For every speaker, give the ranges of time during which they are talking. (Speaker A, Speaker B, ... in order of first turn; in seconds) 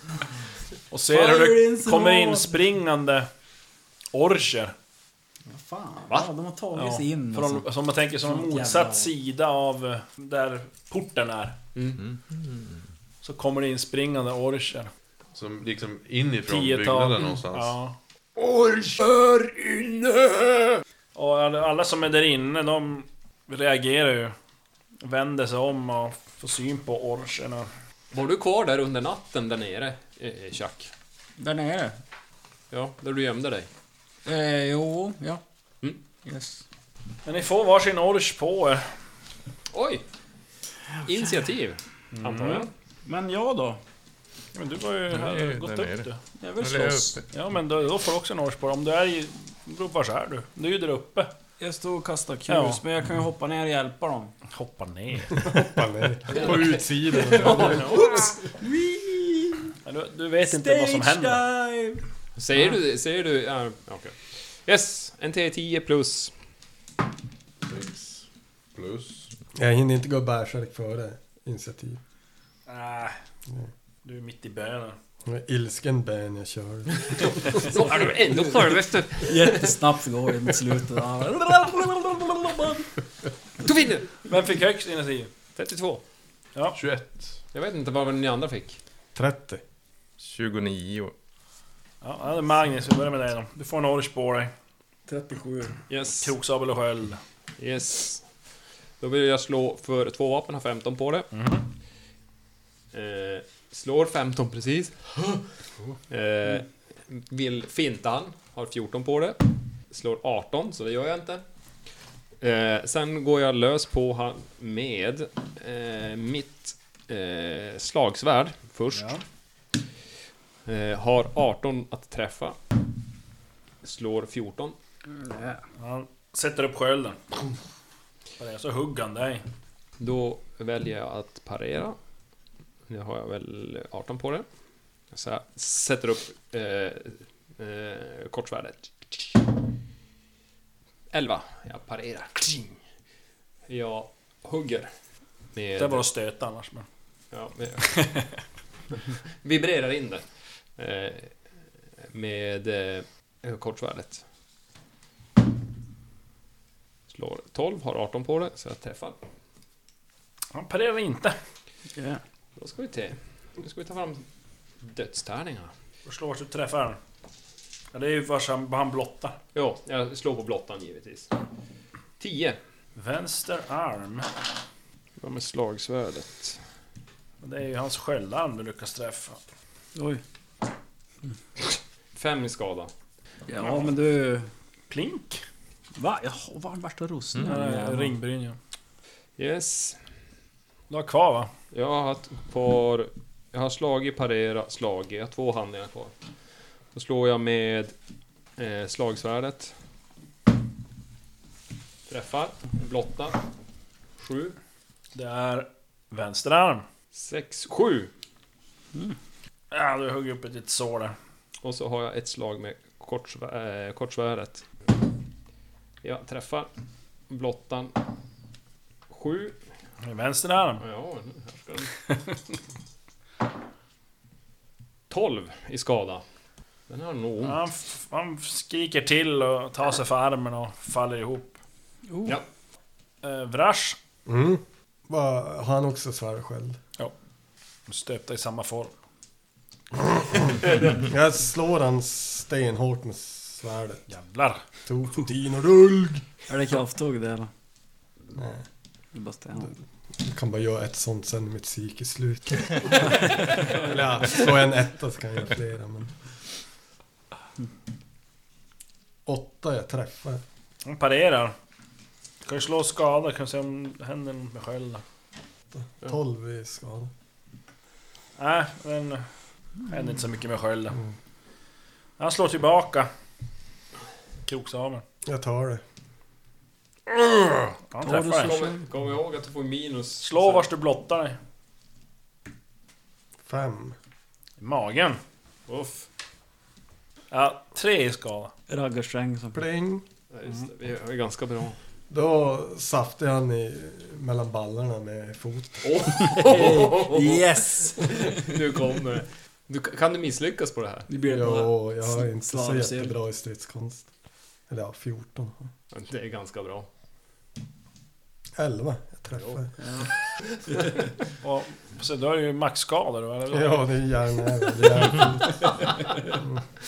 Speaker A: 0.9-3.3, 4.1-4.7, 6.7-11.6, 13.2-14.9, 16.5-17.9, 21.1-24.3, 25.0-27.7, 37.2-38.9, 42.1-42.7, 44.5-46.2, 47.3-51.3, 52.5-52.8, 54.5-55.5, 59.9-61.4, 72.7-73.2, 74.0-75.0, 77.5-78.5, 84.2-85.3, 92.0-94.5, 96.0-97.2, 101.3-101.6, 118.9-119.2, 125.8-127.3, 128.4-129.4, 145.8-146.8, 147.8-148.3, 160.5-161.3, 166.1-167.0, 167.9-169.4, 172.9-174.3, 177.4-179.4, 183.6-183.9, 184.9-185.4, 187.4-188.6, 190.9-191.5, 205.1-206.8, 209.7-211.1, 220.0-220.8, 227.4-231.6, 233.2-234.0, 237.9-238.9, 244.1-244.6, 260.8-261.5, 262.4-265.0, 268.4-269.2, 269.9-271.0, 272.2-273.1, 274.4-275.0, 277.9-278.6, 280.2-281.4, 284.6-285.2, 287.3-288.5, 311.4-313.9
Speaker B: 1.1-2.6, 5.5-7.7, 8.2-9.1, 31.4-32.0, 34.2-35.4, 36.2-36.6, 43.0-43.8, 46.4-47.2, 51.6-54.3, 57.6-59.7, 60.4-62.0, 79.2-82.8, 95.1-95.8, 125.1-125.6, 161.9-162.2, 179.9-180.2, 183.5-184.5, 185.9-188.1, 232.1-232.4, 246.5-247.5, 249.1-249.7, 278.0-278.8, 288.7-289.6, 296.3-298.4, 301.1-303.1, 309.8-310.1
Speaker C: 11.8-12.0, 18.4-20.8, 28.1-30.9, 32.7-33.7, 39.7-40.0, 41.0-42.7, 56.3-58.3, 62.4-66.3, 77.1-79.7, 83.6-84.2, 85.5-86.0, 87.5-88.8, 95.9-96.3, 97.6-98.2, 99.0-101.3, 102.9-105.5, 106.1-111.4, 112.4-119.1, 120.7-122.6, 123.8-124.8, 130.0-132.0, 132.9-134.4, 135.1-139.4, 141.1-142.8, 143.7-144.9, 145.5-146.0, 147.3-147.9, 148.9-150.2, 150.8-151.3, 152.1-154.2, 157.1-159.2, 162.6-164.2, 164.8-165.7, 169.5-171.3, 172.2-172.6, 175.2-176.6, 182.1-182.9, 189.4-190.0, 191.7-196.1, 196.9-197.9, 198.6-199.7, 202.1-203.4, 204.2-204.6, 207.1-208.1, 211.6-214.7, 216.0-216.7, 217.3-217.9, 219.1-219.6, 220.8-221.9, 225.1-226.2, 226.9-227.6, 278.3-280.7, 285.7-286.1, 290.3-291.8, 295.8-301.6, 305.9-306.9, 309.4-309.6
Speaker D: 12.0-12.8, 45.1-47.2, 90.2-91.1
Speaker E: 15.3-17.8, 67.6-69.3, 86.7-87.4
Speaker F: 55.4-58.3, 69.5-72.0, 75.2-77.6, 89.1-89.6, 234.2-236.8, 239.9-244.1, 244.8-246.2, 248.3-248.6, 249.6-256.1, 259.2-260.4, 265.7-267.1, 275.2-275.8, 283.4-283.9, 289.5-290.0, 292.1-296.1, 301.2-304.1, 304.7-305.7, 308.6-309.7, 313.5-315.7